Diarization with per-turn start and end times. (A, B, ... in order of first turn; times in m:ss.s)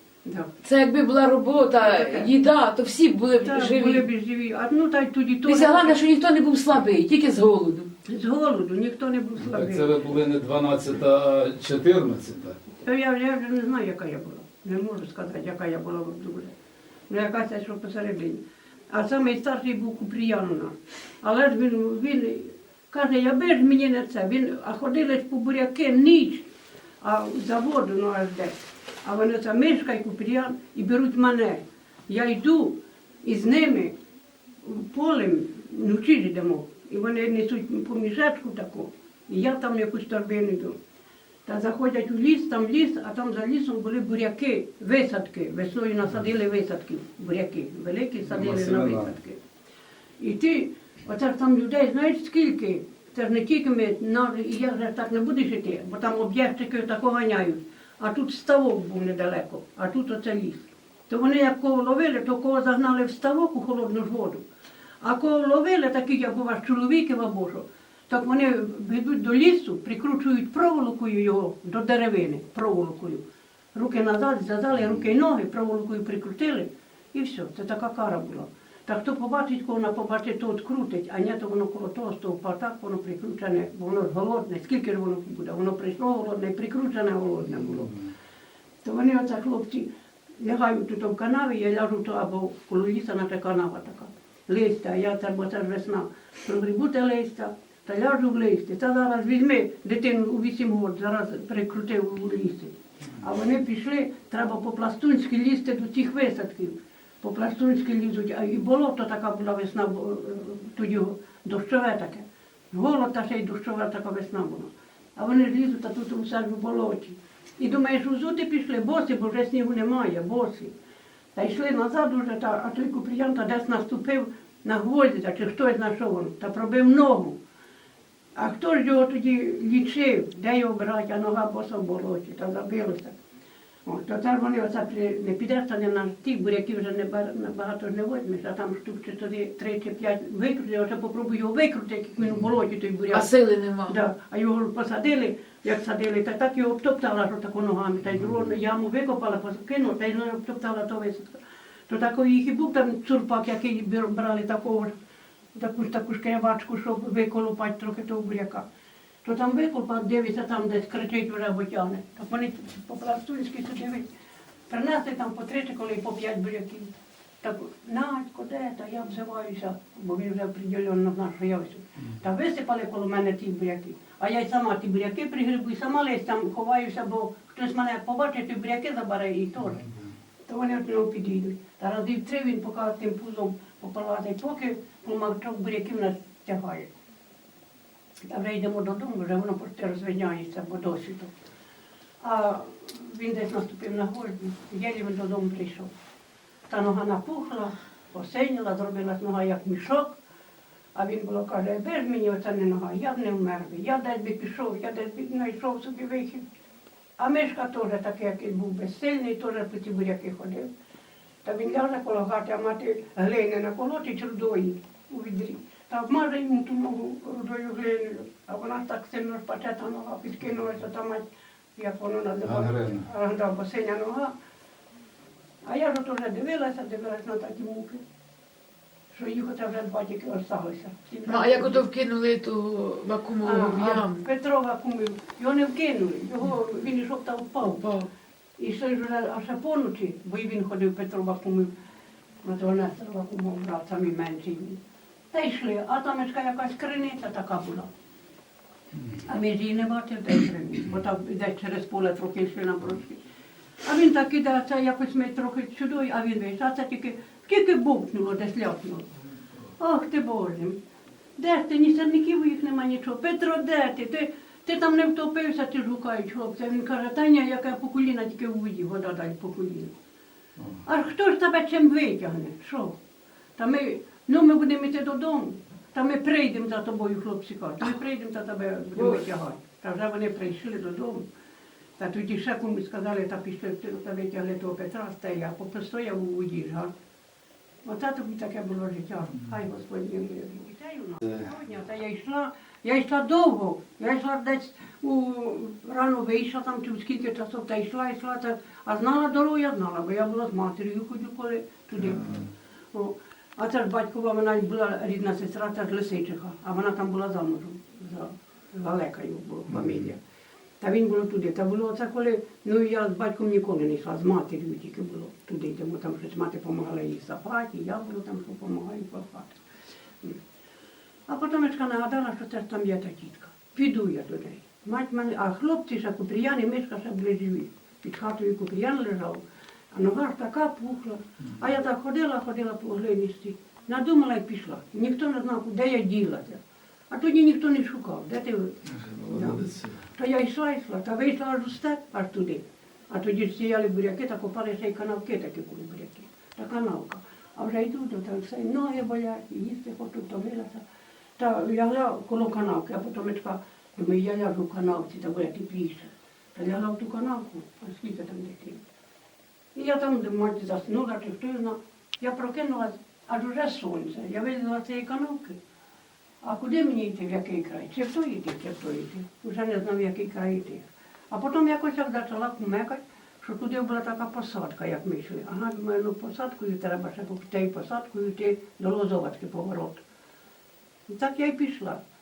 0:00.2-0:00.5 A
0:00.6-0:04.0 B
0:01.8-0:02.3 A
0:03.4-0:06.0 A
0:05.4-0:07.9 B
0:08.0-0:10.0 A
0:09.4-0:12.6 C
0:12.8-0:16.5 A
0:17.1-0:26.5 A
0:27.0-0:33.9 A
0:34.6-0:40.8 A
0:41.4-0:49.4 A
0:48.2-0:49.1 C
0:50.2-1:04.4 A
1:05.0-1:13.2 A
1:13.7-1:27.9 A
1:27.8-1:28.0 C
1:28.8-2:00.7 A
2:01.3-2:07.4 A
2:08.4-2:13.2 A
2:13.8-2:23.3 A
2:23.1-2:23.9 B
2:23.9-2:34.9 A
2:35.5-2:38.6 A
2:39.2-2:44.0 A
2:44.7-2:46.9 A
2:47.4-2:59.8 A
2:59.8-3:00.1 C
3:00.5-3:06.9 A
3:08.2-3:11.3 A
3:12.2-3:15.9 A
3:16.7-3:20.1 A
3:20.9-3:26.4 A
3:27.2-3:30.7 A
3:31.4-3:41.2 A
3:41.8-3:44.3 A
3:42.4-3:43.0 C
3:45.6-3:48.0 A
3:49.1-3:51.8 A
3:51.3-3:54.2 B
3:53.4-3:57.8 A
3:57.6-3:58.1 B
3:58.6-4:01.7 A
4:02.4-4:04.8 A
4:05.3-4:07.9 A
4:09.2-4:13.2 A
4:13.8-4:19.1 A
4:19.8-4:20.8 A
4:21.4-4:29.9 A
4:30.8-4:33.0 A
4:33.6-4:41.2 A
4:39.0-4:39.2 B
4:42.0-4:46.9 A
4:47.8-5:10.2 A
5:02.0-5:02.4 C
5:09.7-5:10.0 C
5:10.8-5:19.6 A
5:21.3-5:36.6 A
5:37.1-5:50.8 A
5:38.9-5:40.0 C
5:51.4-5:58.8 A
5:59.7-6:05.6 A
6:06.4-6:20.0 A
6:21.1-6:22.0 A